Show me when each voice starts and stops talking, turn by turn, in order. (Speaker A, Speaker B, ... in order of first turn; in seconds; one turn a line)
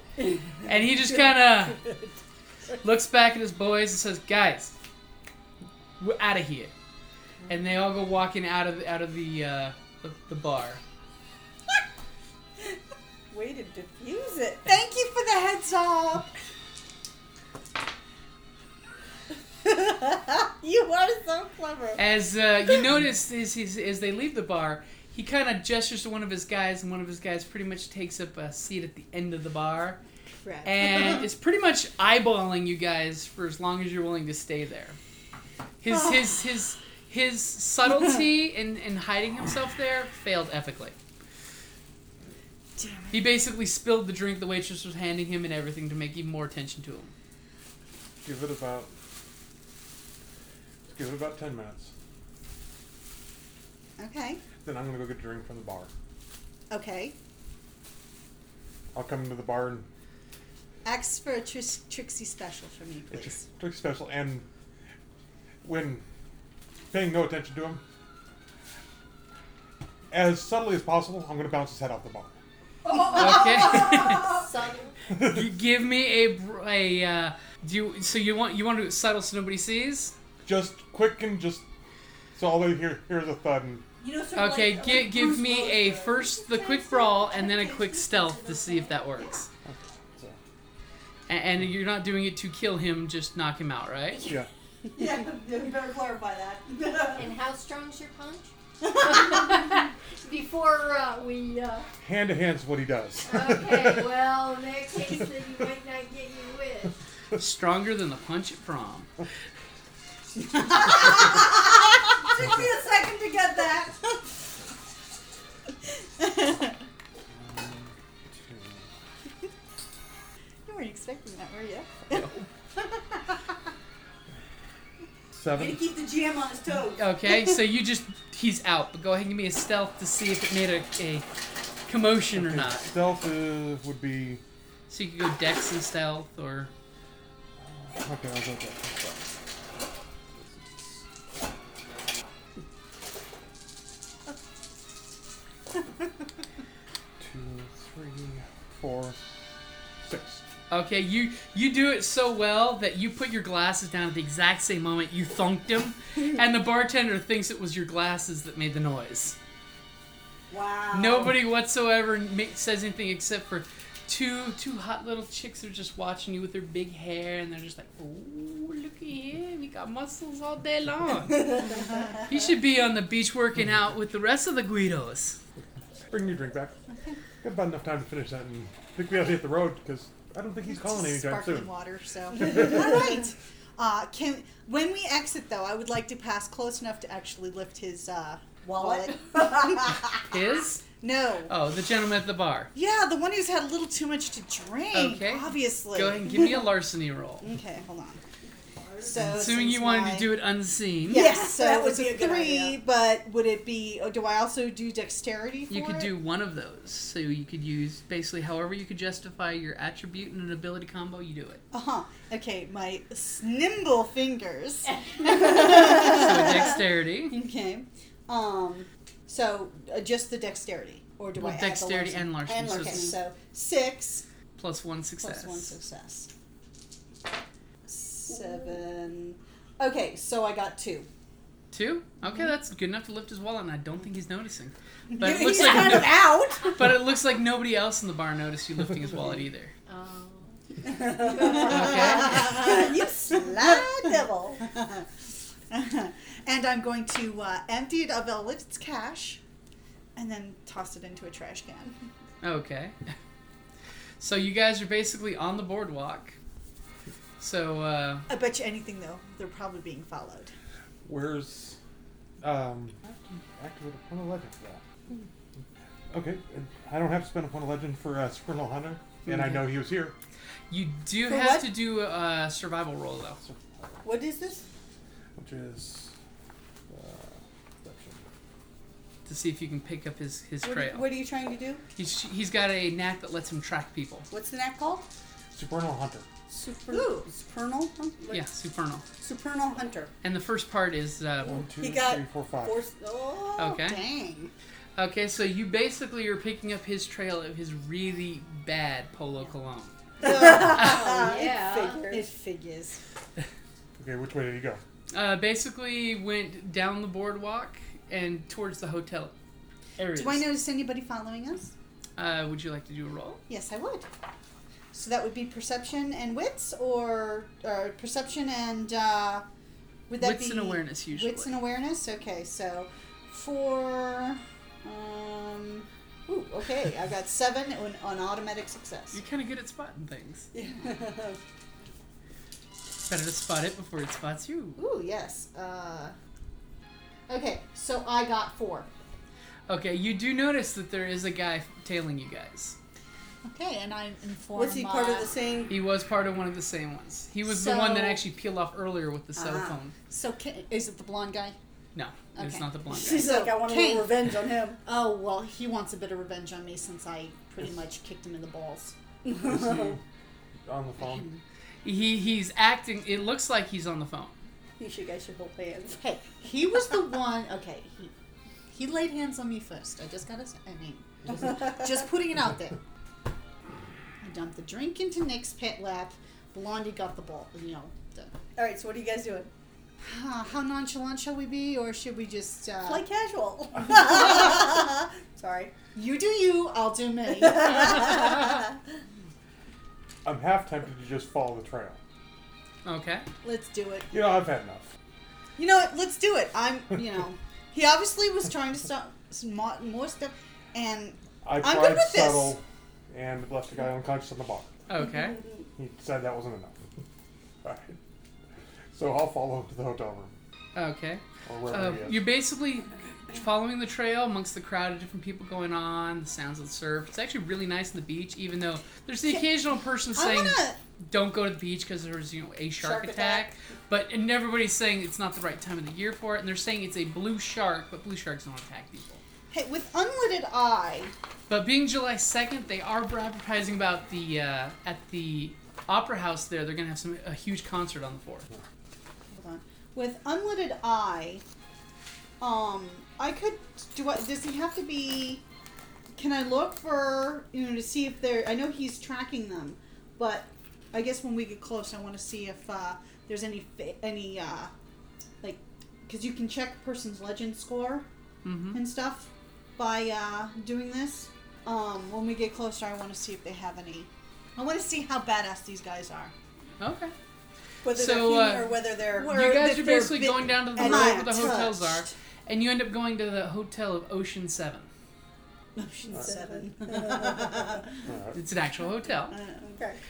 Speaker A: 0.6-1.9
Speaker A: 2.8-4.7
Speaker A: 6.0-6.7
Speaker A: 7.5-10.8
Speaker B: 13.3-14.7
Speaker C: 14.7-16.3
Speaker B: 19.6-22.0
Speaker C: 21.3-21.9
Speaker A: 22.0-30.0
Speaker C: 30.4-31.1
Speaker A: 30.6-35.0
Speaker A: 35.8-41.0
Speaker C: 42.8-43.2
Speaker A: 43.1-47.1
Speaker D: 48.2-48.9
Speaker D: 50.9-51.9
Speaker C: 54.0-54.4
Speaker D: 54.6-55.9
Speaker C: 56.7-57.2
Speaker D: 58.9-59.9
Speaker C: 60.8-63.5
Speaker D: 63.1-64.5
Speaker D: 65.6-66.0
Speaker D: 66.9-67.8
Speaker D: 70.1-72.4
Speaker A: 73.1-74.4
Speaker E: 73.6-74.9
Speaker A: 75.2-80.2
Speaker D: 80.5-81.7
Speaker D: 82.4-83.8
Speaker B: 84.0-87.9
Speaker A: 84.4-89.5
Speaker D: 89.7-90.4
Speaker A: 91.3-94.3
Speaker B: 95.0-97.3
Speaker E: 97.2-101.9
Speaker D: 102.0-104.1
Speaker E: 103.2-107.0
Speaker A: 107.3-109.1
Speaker C: 110.4-112.1
Speaker B: 112.3-113.9
Speaker D: 112.4-112.7
Speaker C: 113.6-114.0
Speaker C: 116.2-116.8
Speaker D: 117.3-118.9
Speaker C: 120.7-123.5
Speaker D: 125.3-125.8
Speaker B: 125.5-127.1
Speaker A: 127.0-131.3
Speaker A: 131.9-132.9
Speaker D: 132.3-134.4
Speaker A: 134.9-136.7
Speaker D: 137.6-139.3
Speaker D: 140.3-141.1
Speaker D: 147.2-149.2
Speaker D: 150.0-150.4
Speaker A: 150.7-159.4
Speaker C: 160.5-160.9
Speaker B: 160.5-161.3
Speaker A: 160.9-175.4
Speaker D: 176.1-176.8
Speaker D: 177.4-181.7
Speaker C: 180.7-190.2
Speaker B: 188.7-190.0
Speaker A: 190.3-190.8
Speaker C: 191.0-191.5
Speaker A: 191.5-192.7
Speaker C: 192.8-196.7
Speaker A: 194.9-197.5
Speaker C: 197.4-198.2
Speaker C: 199.0-200.3
Speaker A: 199.2-201.3
Speaker C: 201.1-206.1
Speaker B: 201.1-202.8
Speaker A: 205.7-211.6
Speaker C: 211.7-224.2
Speaker B: 215.2-216.6
Speaker A: 215.9-217.4
Speaker A: 221.4-223.2
Speaker B: 222.4-223.3
Speaker A: 224.6-225.8
Speaker C: 225.2-226.3
Speaker C: 227.9-231.1
Speaker B: 228.3-228.7
Speaker A: 231.7-239.7
Speaker C: 235.2-236.6
Speaker B: 235.2-236.8
Speaker E: 239.9-240.5
Speaker B: 240.8-244.7
Speaker E: 241.2-241.7
Speaker C: 241.4-245.1
Speaker A: 241.6-242.5
Speaker C: 245.7-249.4
Speaker C: 250.2-252.0
Speaker A: 252.4-253.2
Speaker A: 254.2-256.4
Speaker A: 257.4-258.3
Speaker C: 258.3-260.5
Speaker D: 261.1-261.8
Speaker D: 262.4-264.8
Speaker D: 266.1-270.1
Speaker A: 269.3-269.6
Speaker A: 270.7-273.4
Speaker B: 271.3-271.8
Speaker D: 273.4-274.0
Speaker B: 274.0-274.6
Speaker D: 275.4-276.1
Speaker D: 276.9-278.2
Speaker A: 279.3-281.1
Speaker B: 280.6-281.8
Speaker A: 282.0-284.3
Speaker B: 284.3-285.1
Speaker D: 285.5-286.3
Speaker B: 286.5-288.4
Speaker C: 286.9-287.3
Speaker A: 288.3-289.1
Speaker B: 289.2-290.1
Speaker A: 290.2-291.6
Speaker D: 291.4-292.8
Speaker B: 291.8-293.6
Speaker C: 293.6-294.5
Speaker A: 293.6-294.0
Speaker A: 295.0-300.9
Speaker B: 300.2-302.3
Speaker C: 300.2-301.4
Speaker E: 300.9-302.1
Speaker C: 302.1-303.0
Speaker D: 304.0-304.8
Speaker A: 305.1-309.3
Speaker A: 310.0-310.5
Speaker C: 310.1-311.7
Speaker A: 312.2-313.4
Speaker C: 313.5-314.1
Speaker C: 314.9-319.4
Speaker C: 320.1-329.2
Speaker A: 320.2-321.6
Speaker A: 329.1-330.5
Speaker B: 330.5-331.4
Speaker C: 330.6-330.9
Speaker A: 333.1-334.8
Speaker C: 334.8-336.1
Speaker C: 337.3-338.9
Speaker A: 339.7-342.8
Speaker C: 343.4-345.3
Speaker B: 344.6-345.7
Speaker A: 345.7-349.9
Speaker C: 347.4-348.2
Speaker C: 349.5-351.6
Speaker A: 351.9-353.3
Speaker C: 352.4-358.9
Speaker B: 352.9-354.8
Speaker B: 359.2-360.0
Speaker D: 359.3-360.0
Speaker D: 360.7-361.3
Speaker C: 361.0-361.4
Speaker A: 361.8-364.4
Speaker B: 364.8-366.0
Speaker C: 366.0-368.1
Speaker C: 368.7-372.8
Speaker C: 374.2-378.3
Speaker B: 378.6-379.5
Speaker C: 380.0-383.0
Speaker B: 382.9-385.7
Speaker C: 383.9-385.0
Speaker C: 385.9-388.7
Speaker B: 387.4-388.6
Speaker D: 390.2-392.0
Speaker A: 392.9-393.3
Speaker C: 393.4-394.1
Speaker D: 394.1-394.9
Speaker C: 395.6-402.6
Speaker D: 401.4-404.8
Speaker A: 404.9-405.4
Speaker D: 405.8-406.8
Speaker D: 407.6-408.0
Speaker D: 408.9-410.4
Speaker A: 410.8-429.2
Speaker D: 411.5-412.2
Speaker C: 420.1-420.8
Speaker B: 422.8-423.5
Speaker C: 429.5-431.1
Speaker A: 431.5-438.5
Speaker C: 439.3-441.4
Speaker C: 442.4-445.4
Speaker C: 446.1-454.7
Speaker C: 455.4-458.1
Speaker A: 458.4-458.8
Speaker C: 458.7-466.3
Speaker A: 466.8-467.1
Speaker B: 467.8-469.4
Speaker A: 467.9-474.9
Speaker C: 469.1-472.1
Speaker B: 470.7-471.5
Speaker C: 475.8-477.9
Speaker B: 476.1-477.9
Speaker D: 478.1-478.4
Speaker A: 478.3-479.4
Speaker B: 479.4-480.0